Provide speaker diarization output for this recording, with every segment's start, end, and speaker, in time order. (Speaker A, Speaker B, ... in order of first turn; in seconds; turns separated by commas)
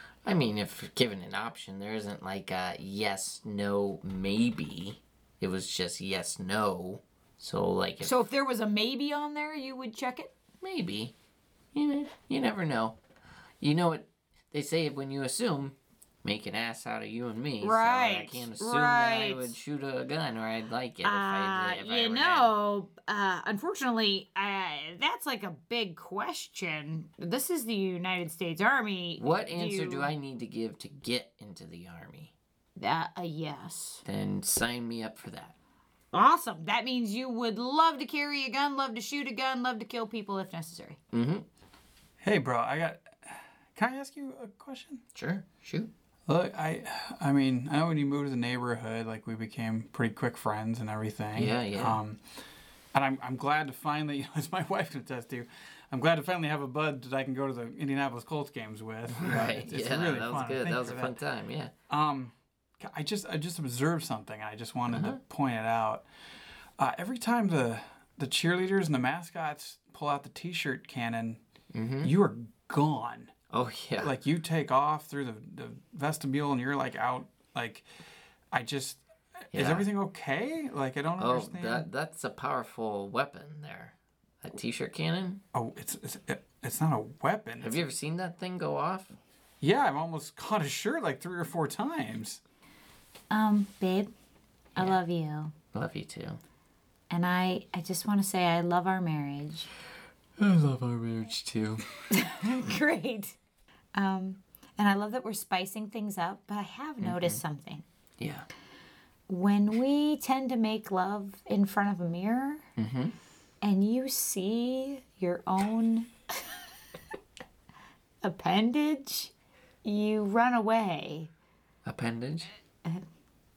Speaker A: 0.2-8.2, Speaker B: 8.0-10.3, Speaker A: 10.6-11.1, Speaker A: 11.7-13.0, Speaker A: 13.6-22.5, Speaker B: 17.6-19.5, Speaker B: 21.0-30.1, Speaker A: 29.2-32.3, Speaker B: 32.8-34.0, Speaker A: 34.0-35.6, Speaker B: 36.1-41.0, Speaker A: 41.1-41.5, Speaker C: 42.2-45.0, Speaker A: 45.1-45.9, Speaker C: 46.3-52.2, Speaker A: 51.4-52.0, Speaker C: 52.9-61.2, Speaker A: 59.1-61.7, Speaker C: 61.9-66.0, Speaker A: 64.9-65.2, Speaker C: 66.8-71.4, Speaker A: 71.7-72.1, Speaker C: 72.0-73.3, Speaker A: 73.5-74.1, Speaker C: 74.0-77.8, Speaker C: 78.5-81.9, Speaker A: 79.5-79.9, Speaker A: 81.2-85.4, Speaker C: 85.5-87.9, Speaker A: 87.6-89.1, Speaker C: 89.6-92.4, Speaker B: 93.3-94.1, Speaker B: 94.8-95.5, Speaker A: 95.7-96.4, Speaker B: 97.1-99.7, Speaker A: 100.4-101.8, Speaker B: 102.1-103.4, Speaker B: 104.0-107.8, Speaker A: 107.0-107.4, Speaker A: 108.2-108.5, Speaker B: 109.3-112.7, Speaker A: 112.8-113.2, Speaker B: 113.6-116.1, Speaker B: 118.2-119.3, Speaker B: 119.8-121.3, Speaker A: 121.8-122.5